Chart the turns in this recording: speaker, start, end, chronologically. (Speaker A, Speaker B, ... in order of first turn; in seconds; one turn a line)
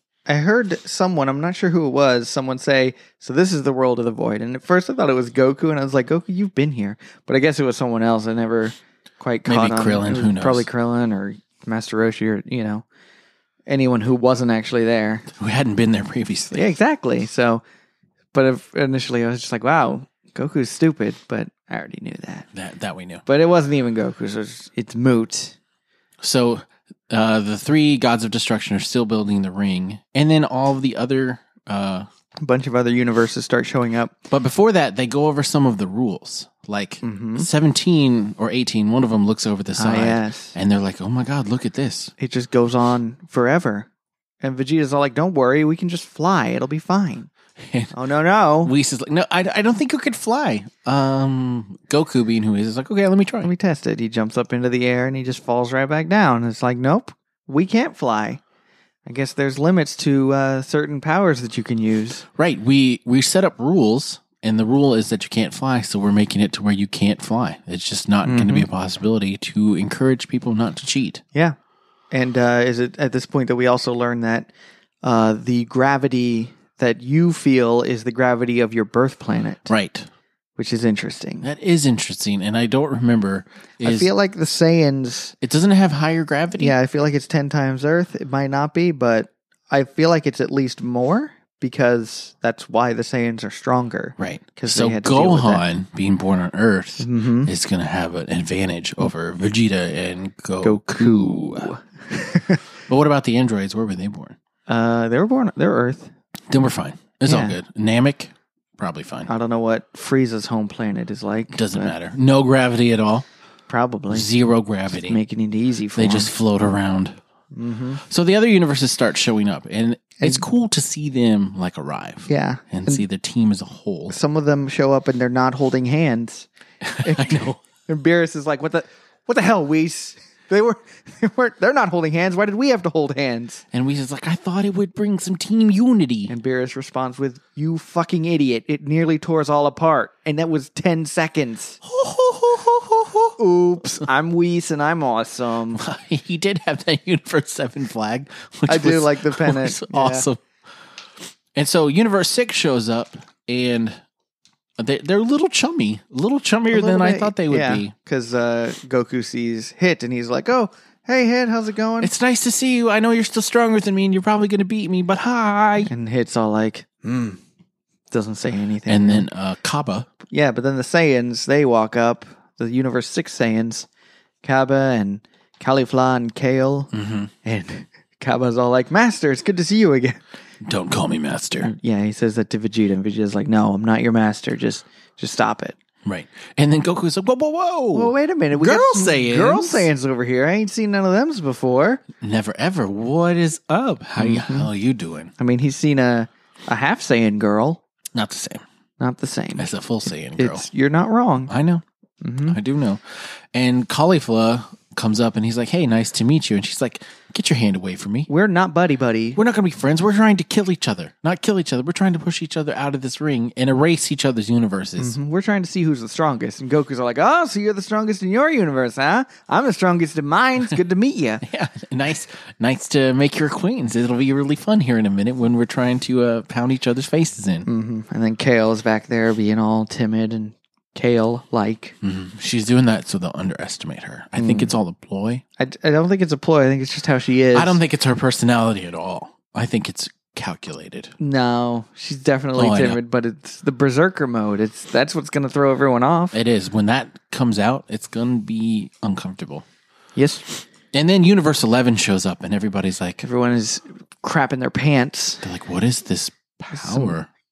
Speaker A: 0.3-12.8
Speaker B: 9.5-10.7
Speaker A: 13.7-15.3
Speaker B: 15.3-16.6
Speaker A: 16.5-17.6
Speaker A: 18.3-22.5
Speaker B: 22.5-23.2
Speaker A: 23.3-25.6
Speaker B: 26.2-32.1
Speaker A: 32.4-34.2
Speaker B: 34.3-42.1
Speaker A: 37.0-37.5
Speaker A: 39.8-40.5
Speaker A: 42.2-43.9
Speaker A: 44.4-47.3
Speaker B: 47.6-47.9
Speaker A: 47.9-48.7
Speaker B: 48.6-53.5
Speaker A: 53.4-58.4
Speaker A: 59.1-62.2
Speaker B: 62.4-71.2
Speaker A: 68.2-68.7
Speaker A: 72.1-74.5
Speaker A: 75.0-79.7
Speaker B: 79.7-80.1
Speaker A: 80.6-81.5
Speaker B: 81.4-84.1
Speaker A: 83.8-85.3
Speaker B: 85.4-86.8
Speaker A: 86.6-95.6
Speaker B: 94.2-101.7
Speaker A: 97.0-97.5
Speaker A: 100.6-102.6
Speaker B: 102.9-104.4
Speaker A: 104.7-106.1
Speaker B: 106.5-109.3
Speaker A: 107.3-107.6
Speaker A: 109.3-111.9
Speaker B: 111.5-113.3
Speaker A: 113.7-114.3
Speaker B: 114.1-115.2
Speaker A: 115.0-116.3
Speaker B: 116.0-117.2
Speaker A: 117.5-118.0
Speaker B: 118.1-124.2
Speaker A: 122.3-123.0
Speaker A: 124.1-126.5
Speaker B: 126.8-127.6
Speaker A: 127.0-133.6
Speaker B: 133.7-136.3
Speaker A: 136.3-141.8
Speaker B: 141.8-143.4
Speaker A: 143.4-145.8
Speaker B: 145.7-150.4
Speaker A: 148.7-150.3
Speaker B: 151.6-154.0
Speaker B: 154.8-157.9
Speaker A: 156.7-162.1
Speaker B: 162.0-165.9
Speaker A: 165.8-167.4
Speaker A: 168.1-169.3
Speaker B: 168.9-170.1
Speaker A: 170.3-173.9
Speaker A: 174.4-176.9
Speaker B: 176.9-177.3
Speaker A: 177.4-180.2
Speaker B: 180.6-181.7
Speaker A: 181.6-185.8
Speaker B: 186.1-189.9
Speaker A: 187.9-192.0
Speaker B: 192.2-195.3
Speaker A: 194.2-194.7
Speaker A: 195.4-197.8
Speaker B: 198.1-198.6
Speaker A: 199.0-199.7
Speaker B: 199.6-200.7
Speaker A: 200.4-201.5
Speaker B: 201.5-201.8
Speaker A: 202.2-202.6
Speaker B: 202.5-208.3
Speaker A: 208.3-209.4
Speaker B: 209.4-215.2
Speaker A: 215.0-221.4
Speaker B: 221.4-227.7
Speaker A: 227.7-231.9
Speaker B: 232.0-235.4
Speaker A: 234.4-234.7
Speaker A: 235.6-237.8
Speaker B: 237.5-241.1
Speaker A: 241.2-246.4
Speaker B: 242.6-243.0
Speaker B: 246.3-249.6
Speaker A: 250.2-250.6
Speaker B: 250.9-253.2
Speaker A: 253.2-255.4
Speaker B: 255.4-257.3
Speaker A: 256.7-257.2